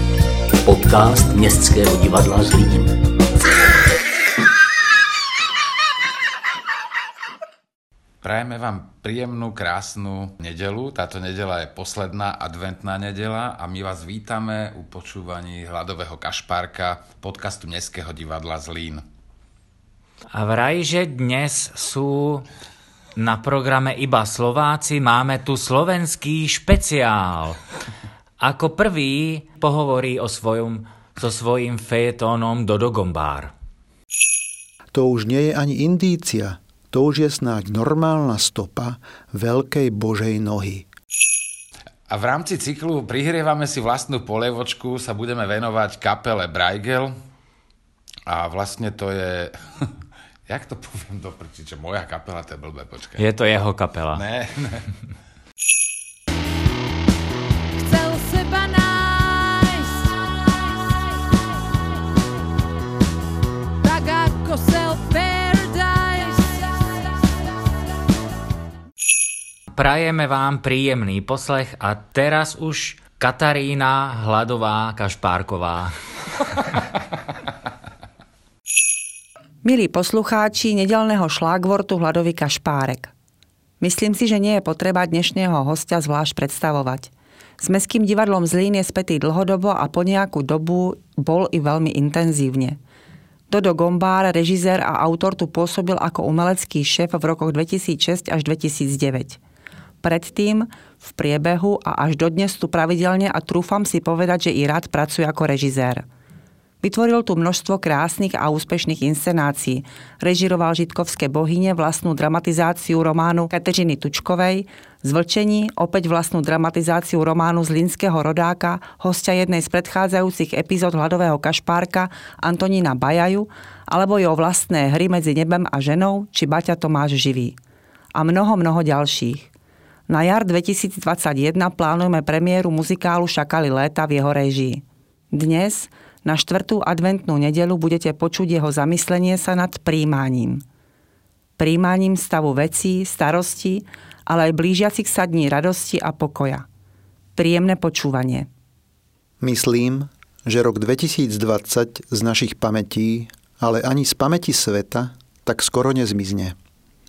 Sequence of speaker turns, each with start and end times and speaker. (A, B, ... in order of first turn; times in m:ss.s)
0:00.6-0:03.0 A
0:08.2-0:19.0 B
0:20.3-0:22.5 C
0:23.2-0:27.6 C
0:28.4-0:33.5 C
0:34.9-0:40.9 D
0:42.1-0:47.2 B
0:48.3-0:49.9 B
0:50.5-0:53.2 B
0:53.2-0:54.2 C
0:54.1-0:54.9 B
0:57.8-1:01.2 E
1:03.8-1:07.1 E
1:09.7-1:15.9 C
1:19.6-1:23.1 F
1:23.8-1:32.8 F
1:33.5-1:39.4 F
1:40.0-1:46.0 F
1:46.8-2:07.6 F
2:08.2-2:09.5 F
2:10.1-2:20.6 F
2:21.6-2:26.7 F
2:27.4-2:28.5 F
2:29.4-2:36.6 D